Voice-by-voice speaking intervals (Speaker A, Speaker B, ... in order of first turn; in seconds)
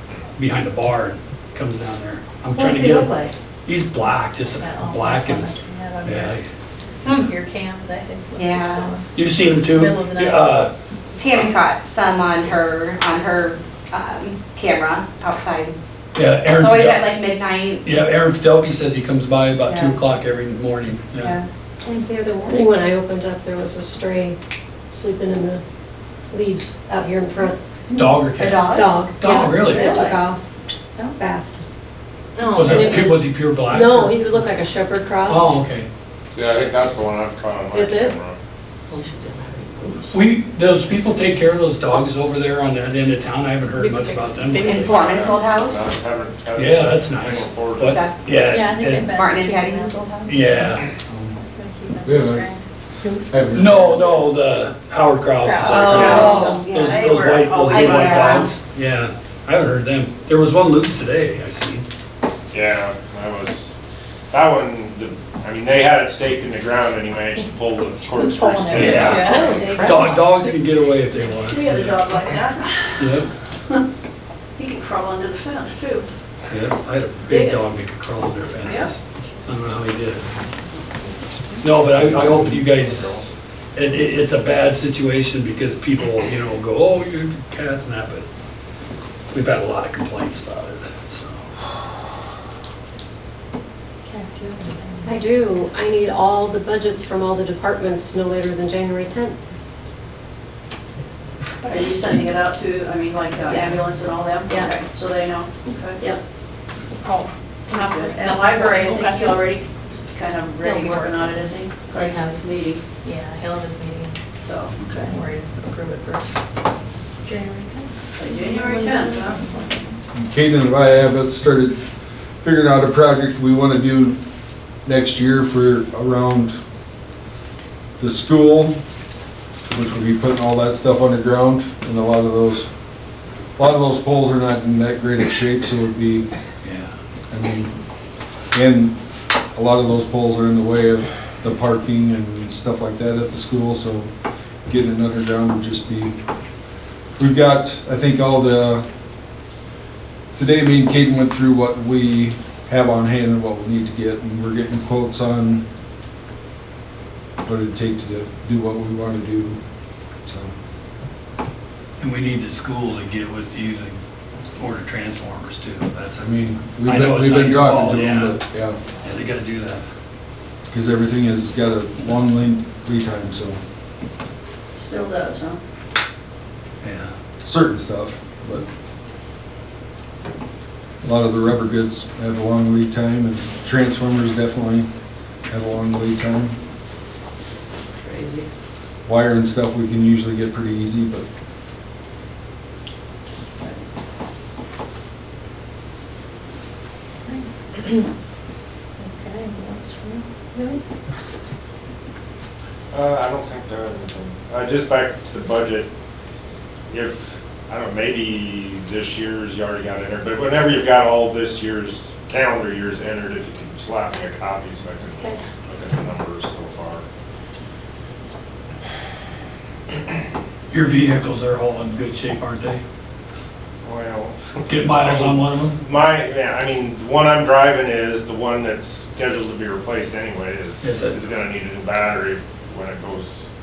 Speaker A: 0.4-5.5, 6.0-6.5, 9.1-10.7, 16.1-17.1, 17.8-21.3, 27.9-28.6, 29.2-30.0, 32.5-34.4, 35.3-35.9, 40.1-44.9, 46.5-49.1, 50.3-50.8, 53.5-61.9, 68.7-72.0, 73.0-73.3, 76.5-80.2, 81.6-83.2, 83.7-88.2, 89.3-91.5, 136.6-136.9, 162.0-164.0, 164.6-168.4, 169.0-169.8, 176.8-177.1, 220.7-222.8, 224.7-225.8, 230.8-231.2
Speaker B: 2.5-3.3, 21.9-24.4, 24.9-25.6, 26.3-27.6, 28.4-30.4, 31.1-31.6, 32.4-35.5, 37.7-38.2, 95.0-99.3
Speaker C: 4.6-6.4, 7.0-10.6, 32.4-32.8, 48.4-50.8, 51.4-52.6, 56.0-56.5, 68.1-70.0, 94.0-95.3, 107.7-109.4, 110.6-111.5, 112.0-112.3, 113.0-114.2, 114.8-116.4, 117.2-119.9, 197.2-198.1, 199.0-200.2
Speaker D: 8.4-8.9, 11.1-15.8, 16.5-17.8, 19.6-20.0, 21.2-21.4, 28.4-29.6, 44.6-45.9, 47.8-48.1, 49.1-50.0, 55.8-56.9, 57.7-58.5
Speaker E: 29.7-30.2, 55.5-58.5, 69.2-70.1, 71.4-73.0, 74.6-76.1, 77.2-77.7, 101.6-106.2, 107.7-112.8, 114.4-114.8, 118.2-119.4, 174.7-175.6, 187.9-188.5
Speaker F: 36.3-38.4, 44.7-48.0, 62.5-63.7, 64.3-69.4, 82.7-83.2, 202.9-205.9, 206.9-217.0, 223.8-233.5
Speaker G: 51.1-51.4, 52.0-52.5, 53.3-54.3, 55.7-56.2, 82.0-82.4, 120.1-121.8, 122.4-124.2, 124.8-126.5, 128.0-128.8, 129.7-132.7, 133.6-136.3, 137.3-137.7, 138.5-139.0, 139.5-144.1, 144.7-146.2, 147.2-148.8, 150.3-155.7, 157.4-159.6, 160.2-160.5, 166.2-168.8, 170.7-173.6, 177.4-178.7, 181.0-184.9, 185.5-186.6, 189.1-191.2